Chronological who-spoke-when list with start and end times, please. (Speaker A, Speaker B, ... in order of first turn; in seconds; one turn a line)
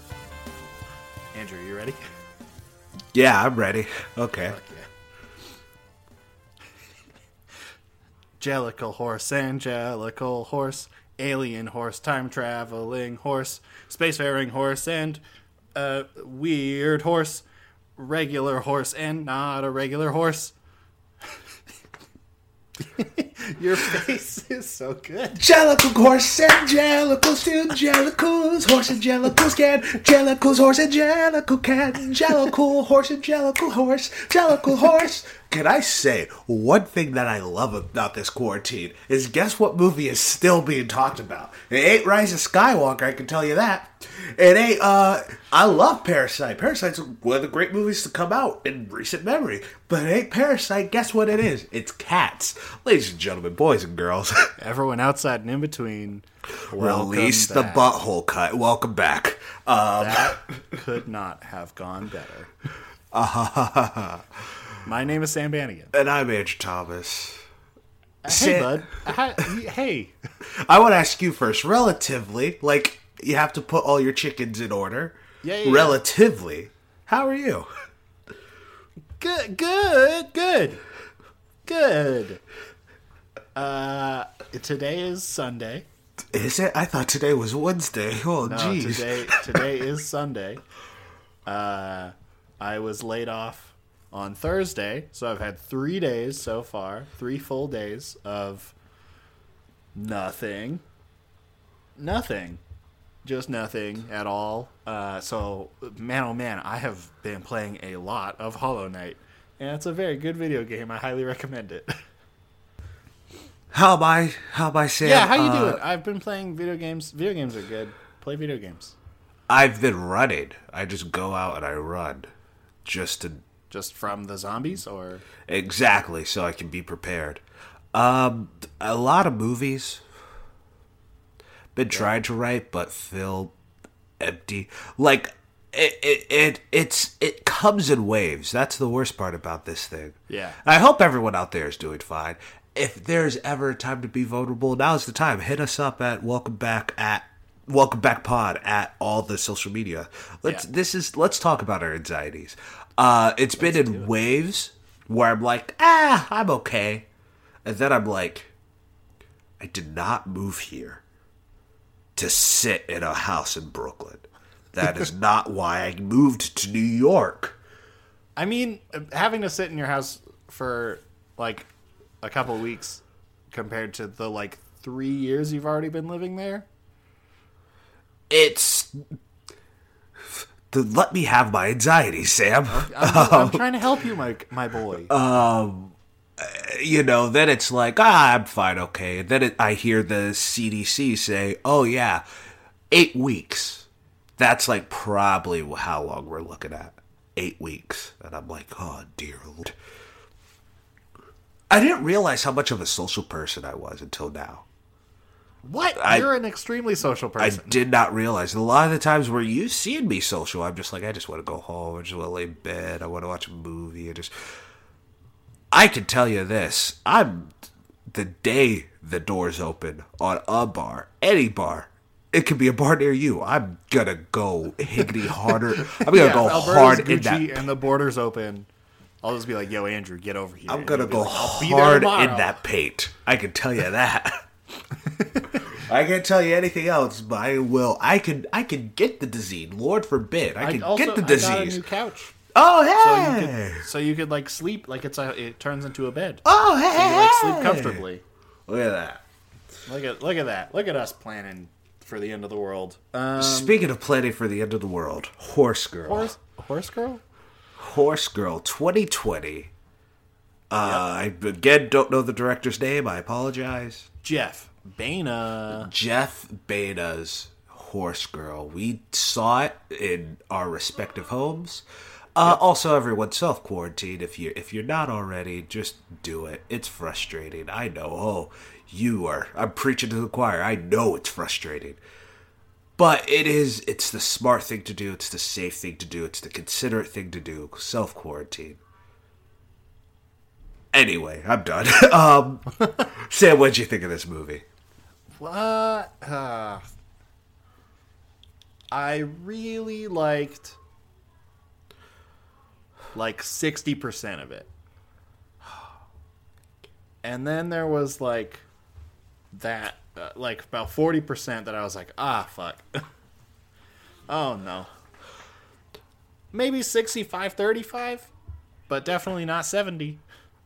Speaker A: 1.3-2.0
Speaker B: 3.1-4.6
Speaker A: 4.5-4.9
Speaker A: 8.4-15.2
Speaker A: 15.7-17.4
Speaker A: 18.0-20.6
Speaker A: 22.8-25.4
Speaker B: 25.3-54.5
Speaker A: 54.6-57.9
Speaker B: 56.7-60.5
Speaker A: 60.0-62.5
Speaker B: 63.1-64.6
Speaker A: 64.8-65.9
Speaker B: 65.9-67.5
Speaker A: 68.2-70.1
Speaker B: 68.3-69.0
Speaker B: 70.5-77.7
Speaker A: 75.4-76.0
Speaker A: 79.2-80.8
Speaker A: 81.7-82.4
Speaker A: 83.5-85.9
Speaker B: 86.3-89.6
Speaker A: 88.4-90.6
Speaker A: 91.5-98.7
Speaker A: 100.0-100.8
Speaker A: 102.0-102.6
Speaker A: 103.2-111.9
Speaker B: 113.7-115.8
Speaker A: 115.0-119.0
Speaker B: 119.5-122.3
Speaker B: 122.8-123.5
Speaker A: 123.7-125.3
Speaker B: 125.5-130.1
Speaker B: 131.8-133.5
Speaker B: 134.2-157.1
Speaker A: 140.3-140.6
Speaker A: 153.6-154.1
Speaker B: 157.6-158.5
Speaker B: 159.6-161.0
Speaker B: 162.2-167.6
Speaker A: 168.4-171.7
Speaker A: 172.2-176.7
Speaker B: 178.3-179.0
Speaker B: 180.3-183.6
Speaker A: 182.7-185.1
Speaker B: 185.1-192.2
Speaker B: 192.9-193.9
Speaker B: 194.4-199.8
Speaker B: 201.7-204.6
Speaker A: 205.6-207.8
Speaker B: 205.9-206.3
Speaker B: 207.4-214.3
Speaker B: 215.7-217.5
Speaker B: 218.1-227.7
Speaker A: 225.0-228.7
Speaker A: 229.2-232.6
Speaker B: 230.7-234.4
Speaker A: 235.0-235.6
Speaker B: 235.5-241.8
Speaker A: 240.6-242.3
Speaker B: 242.5-243.8
Speaker A: 243.0-248.2
Speaker B: 246.4-248.0
Speaker B: 248.7-249.2
Speaker A: 249.9-253.8
Speaker B: 253.4-256.3
Speaker A: 256.1-257.2
Speaker B: 257.8-259.7
Speaker B: 260.7-264.1
Speaker A: 264.2-265.9
Speaker B: 265.7-282.0
Speaker B: 283.0-288.8
Speaker B: 290.9-294.6
Speaker A: 295.4-296.8
Speaker A: 298.9-300.8
Speaker A: 303.1-304.7
Speaker A: 307.2-308.6
Speaker A: 309.5-313.0
Speaker A: 314.3-314.9
Speaker A: 316.5-318.3
Speaker A: 318.9-320.2